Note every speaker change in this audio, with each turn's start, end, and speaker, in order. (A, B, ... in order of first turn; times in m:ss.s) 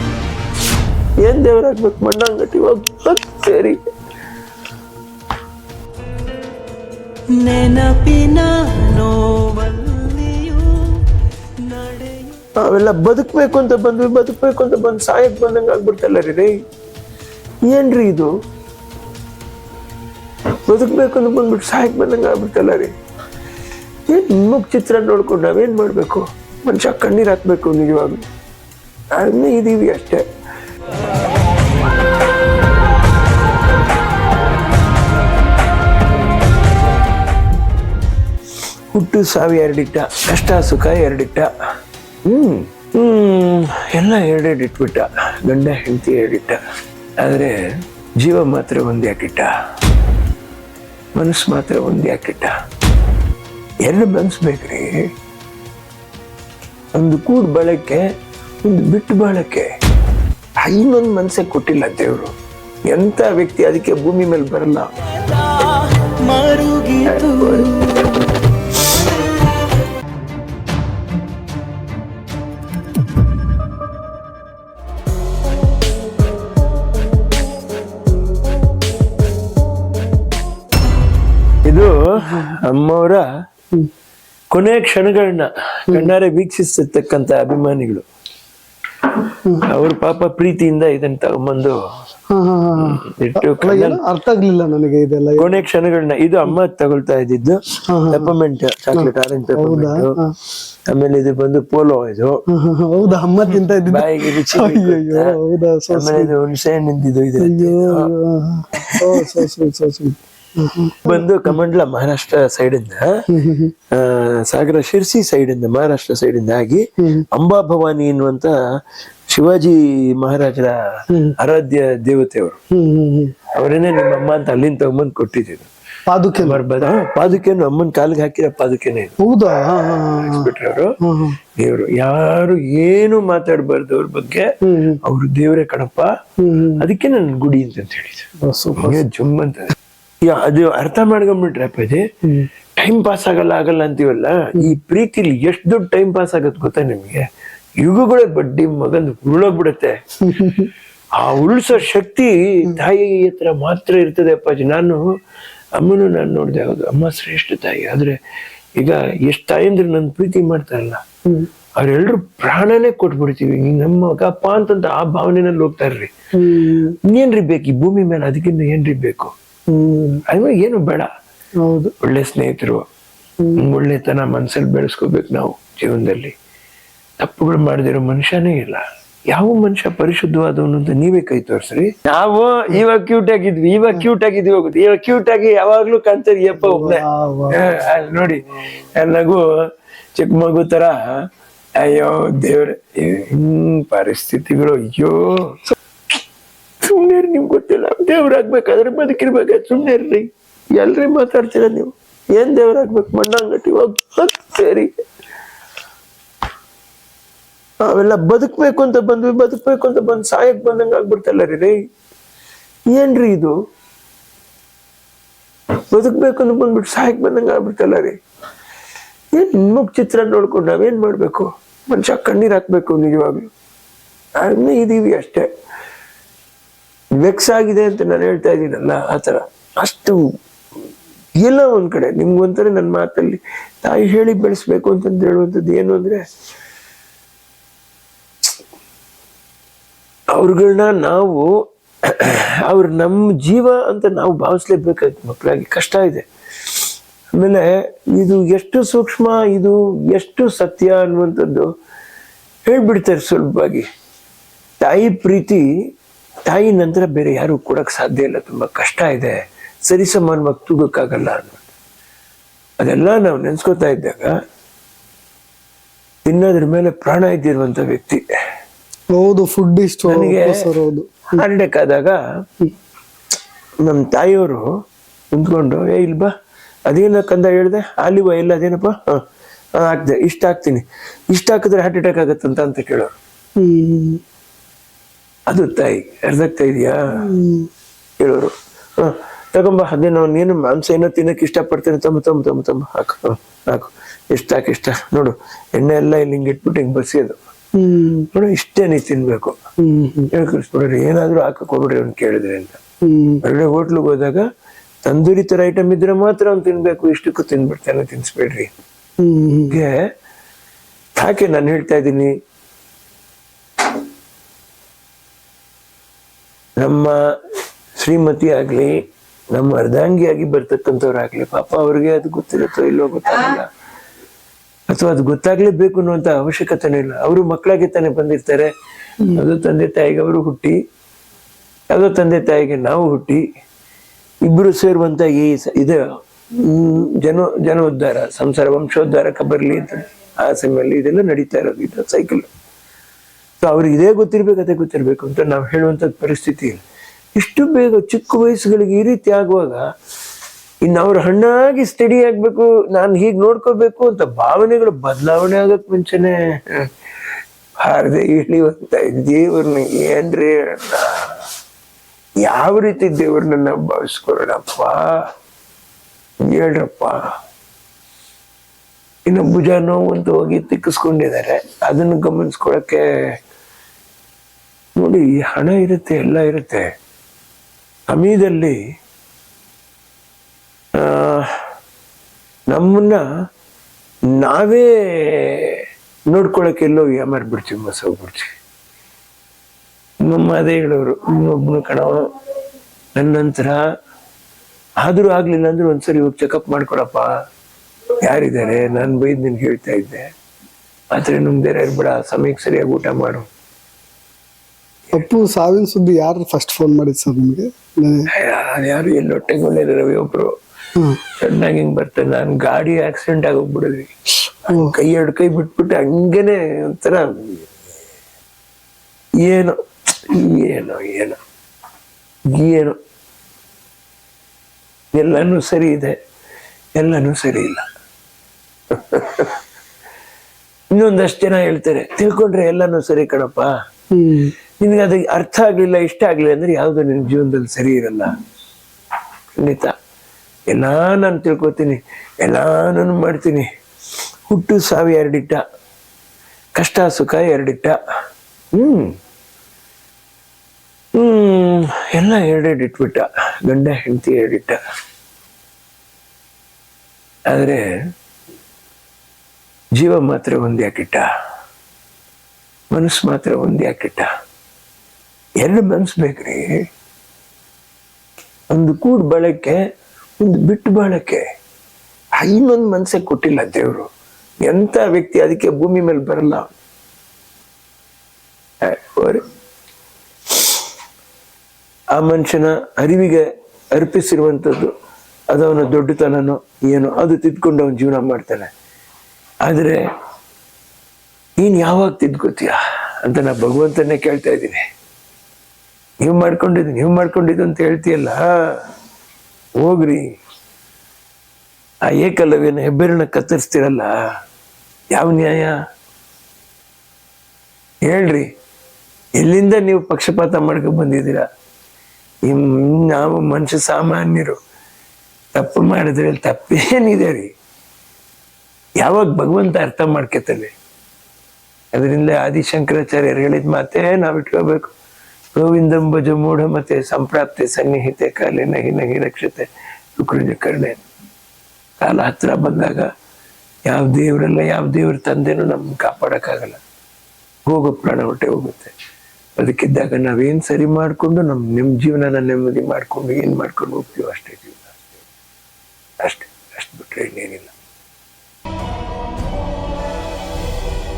0:01.2-0:03.8 A
0:07.3-0:11.1 B
0:11.6-0:12.4 B
0:12.6-0:16.5 A
0:17.7-0:18.3 A
0:20.7-0:22.9 A
0:24.1-0:28.2 A
0:29.1-0:30.2 A
0:38.9-0:41.5 A
0:42.3-0:46.6 A
0:47.2-0:47.6 A
0:48.2-0:49.5 A
0:51.2-0:52.5 A
0:53.8-0:55.0 A
0:57.0-0:58.0 A
0:58.6-0:59.7 A
1:00.6-1:02.3 A
1:02.9-1:04.9 A
1:05.2-1:08.2 B
1:07.0-1:07.8 A
1:21.7-1:23.3 A
1:24.5-1:28.1 A
1:29.6-1:31.8 A
1:32.3-1:35.7 C
1:32.8-1:34.0 A
1:35.4-1:37.6 A
1:37.9-1:38.3 C
1:38.1-1:40.1 A
1:39.0-1:40.3 C
1:40.9-1:42.4 A
1:42.5-1:46.3 C
1:43.8-1:45.4 A
1:45.9-1:48.1 A
1:47.4-1:51.6 C
1:48.8-1:49.4 A
1:51.1-1:53.1 A
1:53.3-1:53.7 C
1:53.9-1:58.5 A
1:59.3-2:00.8 A
2:01.1-2:01.4 C
2:01.4-2:02.6 A
2:02.7-2:03.3 C
2:03.5-2:05.7 A
2:06.1-2:06.6 C
2:06.4-2:09.2 A
2:09.2-2:11.4 C
2:09.9-2:11.0 A
2:11.6-2:14.5 A
2:14.6-2:15.0 C
2:15.0-2:16.1 A
2:16.4-2:16.8 C
2:16.8-2:19.7 A
2:18.4-2:19.1 C
2:20.2-2:22.1 A
2:22.8-2:27.3 A
2:27.8-2:30.6 A
2:30.2-2:30.7 C
2:31.2-2:35.0 A
2:35.8-2:38.2 A
2:38.8-2:41.0 A
2:41.8-2:46.1 A
2:46.4-2:47.0 C
2:47.0-2:49.3 A
2:49.7-2:50.2 C
2:50.3-2:51.1 A
2:51.6-2:51.9 C
2:52.0-2:52.8 A
2:53.6-2:56.3 A
2:57.2-3:09.5 A
3:06.6-3:07.7 C
3:10.2-3:11.2 A
3:11.8-3:15.6 A
3:16.8-3:24.9 A
3:27.8-3:31.8 A
3:32.9-3:33.5 A
3:35.8-3:38.2 A
3:39.3-3:43.5 A
3:44.4-3:45.5 A
3:47.2-3:50.2 A
3:51.4-3:56.2 A
4:00.3-4:01.5 A
4:02.1-4:06.3 A
4:07.4-4:11.7 A
4:12.7-4:13.9 A
4:14.8-4:15.6 A
4:16.5-4:21.7 A
4:22.8-4:24.3 A
4:26.2-4:28.2 A
4:29.1-4:31.4 C
4:30.1-4:30.7 A
4:31.4-4:32.2 A
4:33.8-4:34.7 A
4:35.3-4:36.3 A
4:36.9-4:39.2 A
4:39.8-4:43.2 A
4:43.6-4:44.2 C
4:45.5-4:47.0 A
4:47.1-4:47.7 C
4:48.2-4:57.4 A
4:57.8-4:58.3 C
4:58.3-4:59.6 A
4:59.8-5:00.3 C
5:00.3-5:02.8 A
5:03.0-5:03.4 C
5:03.4-5:04.4 A
5:05.0-5:08.7 A
5:09.2-5:09.8 C
5:09.7-5:10.0 A
5:11.2-5:12.3 A
5:16.8-5:17.2 A
5:18.0-5:19.0 A
5:19.5-5:23.7 A
5:24.9-5:28.7 A
5:29.2-5:30.8 A
5:31.9-5:33.4 A
5:34.4-5:36.0 A
5:36.6-5:42.5 A
5:43.6-5:46.8 A
5:47.4-5:49.8 A
5:50.8-5:56.9 A
5:57.8-6:01.3 A
6:02.4-6:05.1 A
6:06.5-6:07.2 A
6:09.3-6:13.0 A
6:15.0-6:16.9 A
6:18.1-6:18.8 A
6:21.0-6:21.5 A
6:22.7-6:23.2 A
6:24.4-6:28.5 A
6:30.2-6:32.3 A
6:33.2-6:33.8 A
6:35.0-6:37.3 A
6:38.2-6:40.3 A
6:41.1-6:43.5 A
6:45.2-6:48.3 C
6:48.3-6:50.5 A
6:51.3-6:54.1 A
6:54.7-6:57.7 A
6:54.7-6:55.0 C
6:59.4-7:01.4 A
7:02.5-7:03.0 A
7:05.1-7:06.2 A
7:07.0-7:07.8 A
7:08.9-7:09.6 A
7:10.9-7:13.7 A
7:14.1-7:14.5 C
7:14.8-7:18.3 A
7:19.5-7:19.9 A
7:20.7-7:23.7 A
7:24.5-7:25.6 A
7:26.8-7:28.0 A
7:28.7-7:29.1 A
7:31.2-7:34.8 A
7:37.5-7:37.8 A
7:40.0-7:41.2 A
7:42.9-7:44.3 A
7:45.6-7:46.8 A
7:48.7-7:49.8 A
7:50.4-7:51.4 A
7:52.4-7:54.1 A
7:54.6-7:56.7 A
7:58.8-7:59.4 A
8:02.2-8:04.9 A
8:05.5-8:08.7 A
8:09.7-8:10.0 A
8:11.6-8:14.8 A
8:16.2-8:18.8 A
8:19.8-8:20.2 A
8:22.1-8:24.1 A
8:25.1-8:25.7 A
8:28.1-8:28.5 A
8:29.4-8:31.4 A
8:32.4-8:34.6 A
8:35.5-8:37.5 A
8:39.0-8:40.7 A
8:41.9-8:44.9 A
8:45.5-8:51.0 A
8:52.0-8:53.1 A
8:53.9-8:56.8 A
8:57.7-8:58.9 A
8:59.6-9:05.1 A
9:06.2-9:07.7 A